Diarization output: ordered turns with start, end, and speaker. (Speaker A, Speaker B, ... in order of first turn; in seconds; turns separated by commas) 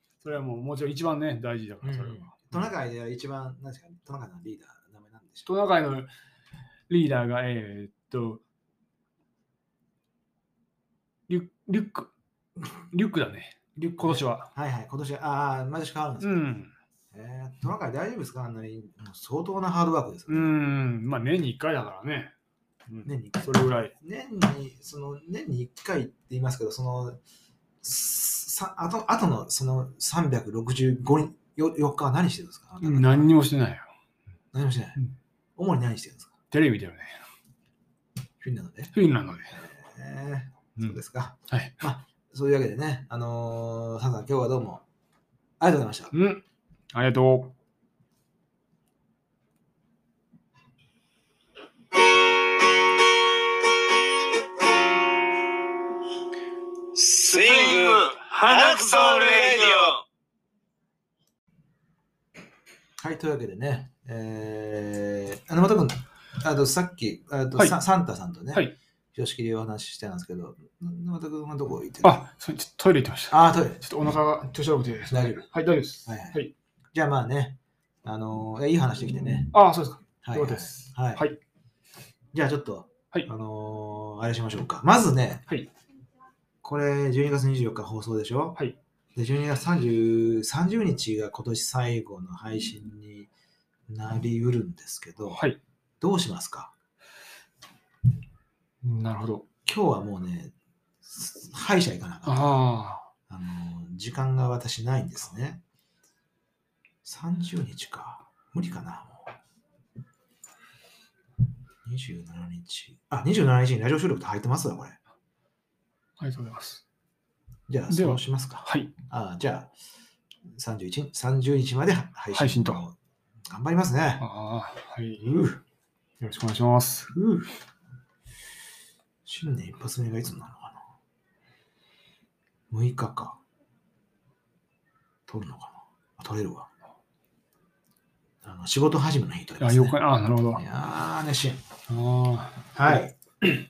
Speaker A: 0.2-2.7, Speaker B: 1.8-5.5, Speaker A: 5.5-6.1, Speaker A: 6.9-8.4, Speaker A: 11.3-12.1, Speaker A: 12.7-14.5, Speaker B: 14.0-16.5, Speaker A: 16.2-16.7, Speaker B: 17.1-20.5, Speaker A: 20.3-22.3, Speaker A: 22.9-23.9, Speaker B: 23.0-27.2, Speaker B: 27.8-33.3, Speaker A: 32.8-33.9, Speaker B: 34.5-35.0, Speaker B: 35.5-36.3, Speaker A: 36.5-37.2, Speaker B: 38.4-38.9, Speaker A: 38.9-39.5, Speaker B: 39.5-44.8, Speaker A: 41.5-41.8, Speaker B: 45.6-46.1, Speaker A: 46.1-46.4, Speaker A: 46.9-47.5, Speaker C: 56.9-60.0, Speaker B: 63.0-72.2, Speaker A: 72.0-76.5, Speaker B: 73.3-73.8, Speaker B: 75.1-75.4, Speaker B: 76.0-76.4, Speaker B: 76.9-79.5, Speaker A: 79.5-81.4, Speaker B: 80.2-81.2, Speaker B: 82.3-85.5, Speaker B: 86.6-88.6, Speaker B: 89.1-93.3, Speaker B: 93.9-95.4, Speaker A: 95.3-95.6, Speaker B: 96.0-96.7, Speaker A: 98.8-99.5, Speaker B: 99.7-102.6, Speaker A: 102.2-103.1, Speaker B: 103.3-105.6, Speaker B: 107.0-109.3, Speaker B: 111.8-115.0, Speaker A: 116.2-116.8, Speaker B: 117.7-119.7, Speaker A: 117.9-118.9, Speaker B: 120.5-123.0, Speaker A: 122.3-122.8, Speaker B: 123.5-124.2, Speaker A: 124.2-125.6, Speaker A: 126.2-127.2, Speaker B: 127.2-127.4, Speaker B: 129.2-130.8, Speaker B: 132.7-133.4, Speaker B: 135.3-136.7, Speaker B: 138.4-140.0, Speaker A: 139.6-140.6, Speaker B: 140.6-141.6, Speaker A: 141.9-142.7, Speaker B: 142.7-143.2